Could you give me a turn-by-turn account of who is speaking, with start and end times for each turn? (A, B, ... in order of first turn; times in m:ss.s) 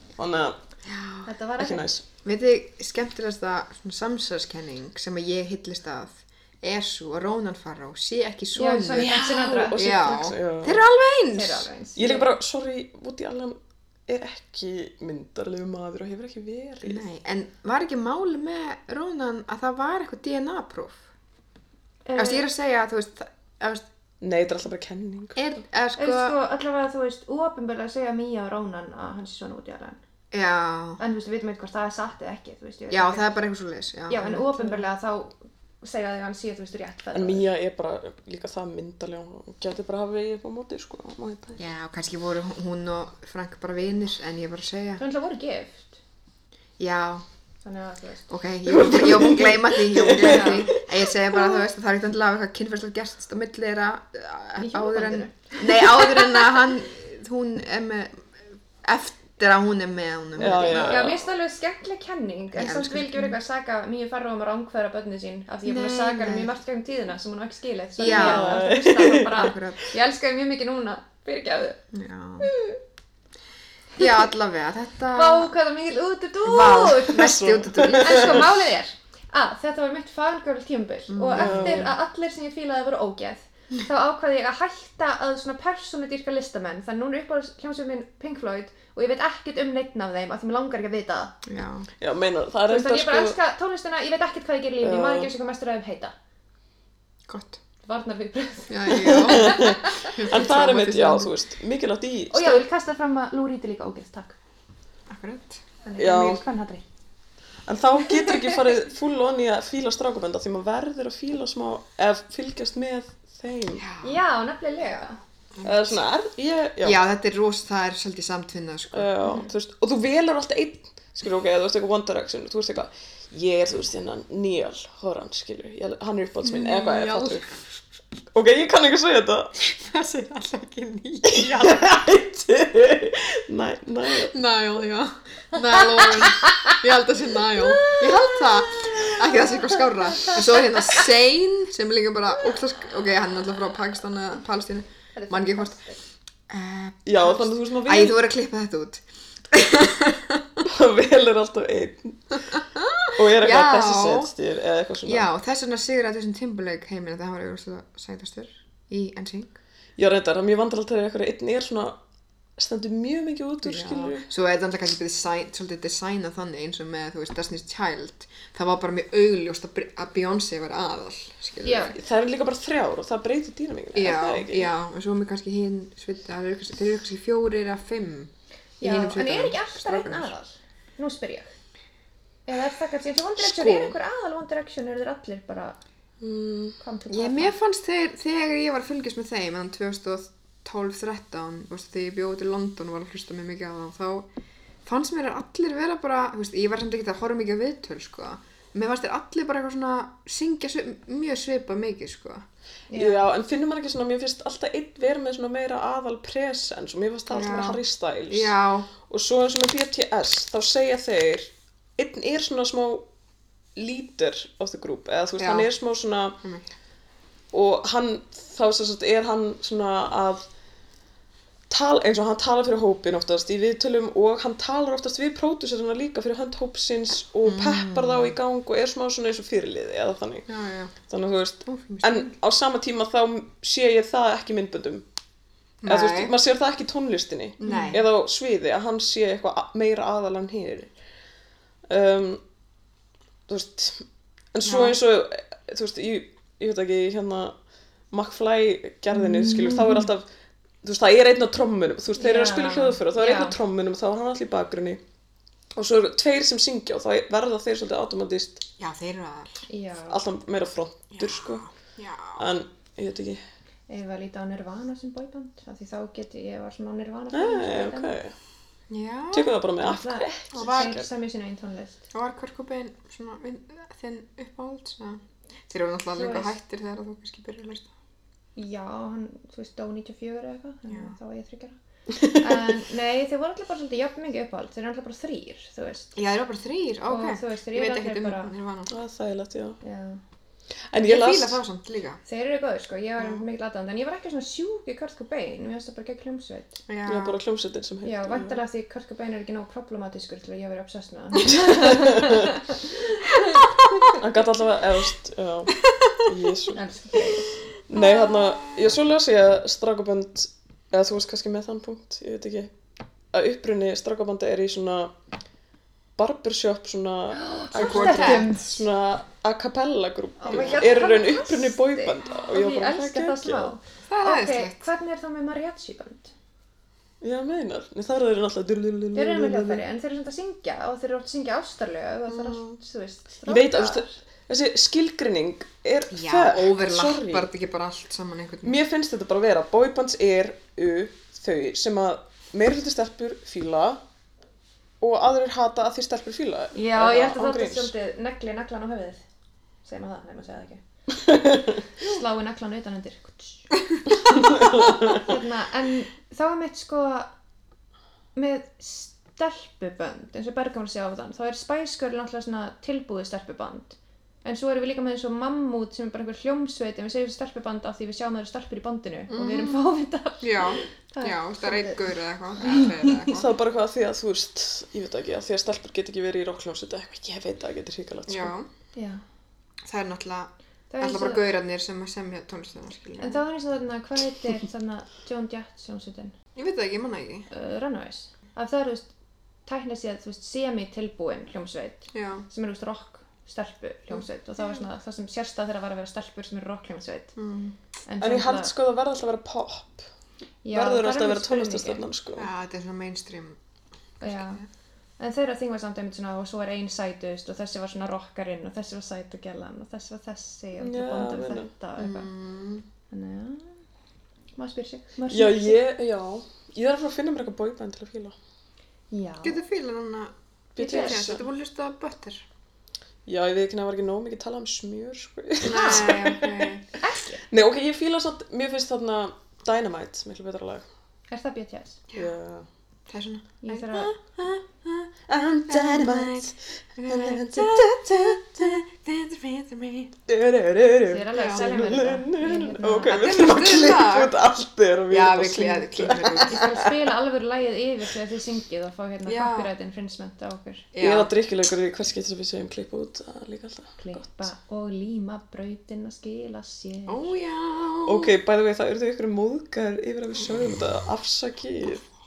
0:00.2-0:00.6 A
0:00.8-0:01.3 B
0:01.2-0:01.9 C
0:01.6-0:02.0 A
0:02.2-0:11.7 B
0:08.5-0:10.1 C
0:08.9-0:10.8 A
0:11.3-0:12.3 C
0:12.0-0:17.0 A
0:16.8-0:21.0 B
0:22.0-0:22.4 C
0:22.1-0:23.9 B
0:24.2-0:25.5 A
0:25.4-0:26.3 B
0:26.0-0:30.0 C
0:30.3-0:31.0 B
0:31.0-0:33.3 C
0:32.9-0:34.8 B
0:34.1-0:37.5 C
0:37.1-0:41.6 A
0:41.6-0:45.0 B
0:45.0-0:46.0 C
0:46.8-0:47.2 B
0:47.6-0:48.3 C
0:48.3-0:58.3 B
0:48.6-0:50.9 A
0:50.2-0:50.6 C
0:54.6-0:56.7 C
0:58.8-1:01.1 B
1:00.4-1:01.3 A
1:00.8-1:11.8 C
1:02.5-1:03.3 B
1:05.6-1:06.5 B
1:08.0-1:08.6 B
1:08.0-1:09.5 A
1:09.3-1:09.8 B
1:11.9-1:12.5 B
1:12.4-1:12.8 C
1:14.0-1:15.5 B
1:14.0-1:14.2 C
1:15.1-1:17.4 C
1:16.4-1:18.5 B
1:17.2-1:18.4 A
1:17.9-1:31.4 C
1:21.1-1:21.9 B
1:21.3-1:22.0 A
1:31.4-1:31.9 B
1:32.0-1:33.4 A
1:32.7-1:36.1 C
1:34.8-1:35.3 A
1:37.3-1:37.6 B
1:37.8-1:40.1 C
1:38.7-1:41.3 B
1:38.9-1:42.6 A
1:42.3-1:44.4 C
1:45.1-1:45.6 B
1:45.8-1:46.8 C
1:46.0-1:46.4 A
1:47.6-1:53.8 A
1:48.2-1:48.5 C
1:53.8-1:54.2 B
1:54.0-1:55.2 C
1:55.5-1:56.0 B
1:55.6-1:57.0 A
1:56.8-1:59.4 B
1:58.9-2:07.4 A
2:06.4-2:07.4 B
2:08.3-2:09.5 A
2:09.6-2:11.9 B
2:11.2-2:14.3 A
2:14.2-2:25.8 B
2:16.5-2:16.7 C
2:17.8-2:18.1 C
2:18.8-2:20.9 C
2:25.1-2:26.0 C
2:26.5-2:30.6 B
2:27.0-2:28.2 A
2:30.6-2:35.3 A
2:32.5-2:34.3 B
2:35.0-2:39.6 B
2:40.0-2:42.0 A
2:42.6-2:44.3 A
2:43.6-2:52.0 B
2:51.6-2:52.0 C
2:51.9-2:54.7 A
2:53.9-3:00.3 B
2:58.8-3:01.5 C
3:02.5-3:05.8 C
3:03.4-3:03.9 A
3:06.2-3:06.8 A
3:06.8-3:07.6 C
3:07.1-3:14.3 B
3:14.8-3:22.4 B
3:22.9-3:23.2 C
3:22.9-3:28.5 A
3:27.3-3:28.9 B
3:29.1-3:33.0 A
3:33.8-3:36.4 A
3:35.4-3:35.7 B
3:37.5-3:40.5 A
3:41.7-3:50.5 A
3:47.4-3:48.4 B
3:50.5-3:50.9 B
3:51.1-3:55.0 A
3:51.6-3:52.3 B
3:55.8-3:56.3 B
3:55.8-4:00.9 A
3:57.6-3:58.0 B
3:57.6-3:58.0 C
4:01.9-4:02.4 A
4:03.5-4:04.0 A
4:04.5-4:07.5 A
4:04.6-4:05.0 B
4:08.1-4:10.2 A
4:09.1-4:10.1 C
4:10.8-4:15.0 A
4:12.2-4:13.6 C
4:15.7-4:18.6 A
4:18.8-4:19.6 B
4:19.7-4:20.2 C
4:20.1-4:21.6 A
4:21.1-4:22.5 B
4:22.4-4:23.4 A
4:23.9-4:28.2 C
4:27.3-4:28.3 A
4:28.9-4:29.6 B
4:29.3-4:31.0 A
4:29.8-4:32.0 C
4:30.5-4:31.0 B
4:32.1-4:37.9 B
4:36.1-4:36.5 C
4:38.6-4:46.1 C
4:46.1-4:48.9 B
4:47.1-4:48.5 C
4:48.9-4:49.8 A
4:49.8-4:50.2 C
4:50.9-4:51.6 A
4:51.0-4:52.2 B
4:52.2-4:56.8 C
4:56.9-4:57.4 B
4:57.0-4:58.5 A
4:58.0-5:04.2 C
5:01.5-5:02.4 A
5:04.1-5:06.8 A
5:06.7-5:07.5 C
5:07.9-5:12.7 A
5:07.9-5:08.9 B
5:13.3-5:15.1 A
5:16.2-5:23.7 A
5:17.3-5:18.7 C
5:17.7-5:18.8 B
5:20.4-5:21.1 B
5:20.4-5:26.3 C
5:24.1-5:24.9 B
5:27.2-5:29.8 A
5:29.1-5:34.1 C
5:32.3-5:32.8 B
5:33.5-5:37.5 A
5:36.1-5:38.8 B
5:38.6-5:44.0 A
5:45.0-5:47.9 A
5:46.7-5:49.2 C
5:49.8-5:50.8 C
5:51.2-5:51.7 A
5:51.9-5:53.7 C
5:54.3-5:55.2 A
5:54.8-5:57.3 C
5:58.3-6:13.4 C
6:09.3-6:09.8 B
6:10.4-6:13.5 B
6:13.3-6:18.5 A
6:18.3-6:18.7 B
6:18.9-6:19.2 C
6:19.8-6:23.4 B
6:20.9-6:21.4 C
6:23.2-6:26.3 C
6:26.5-6:27.5 B
6:27.5-6:29.1 C
6:29.6-6:37.3 C
6:32.1-6:32.4 B
6:37.4-6:37.8 B
6:38.1-6:38.7 C
6:38.2-6:40.0 A
6:40.6-6:42.0 C
6:40.7-6:42.5 A
6:42.4-6:43.6 B
6:44.2-6:44.6 B
6:44.2-6:44.6 C
6:45.2-6:52.3 C
6:50.8-6:51.7 A
6:52.0-6:52.8 B
6:53.1-6:53.8 C
6:54.6-6:55.8 C
6:55.3-6:58.3 A
6:59.1-6:59.6 C
6:59.4-7:02.4 B
7:00.8-7:01.4 A
7:00.8-7:01.2 C
7:03.2-7:06.7 A
7:05.6-7:06.8 B
7:05.6-7:06.2 C
7:07.0-7:07.4 C
7:07.5-7:10.8 A
7:11.3-7:12.0 C
7:12.1-7:12.7 A
7:13.1-7:15.1 B
7:13.6-7:14.1 C
7:15.3-7:18.8 A
7:15.7-7:20.1 B
7:20.3-7:26.9 A
7:21.0-7:23.2 C
7:21.3-7:21.7 B
7:23.0-7:24.3 B
7:25.1-7:26.7 B
7:26.4-7:30.9 C
7:29.2-7:29.7 B
7:30.9-7:31.3 B
7:31.0-7:34.4 A
7:34.0-7:37.3 C
7:37.1-7:38.3 B
7:38.0-7:42.0 A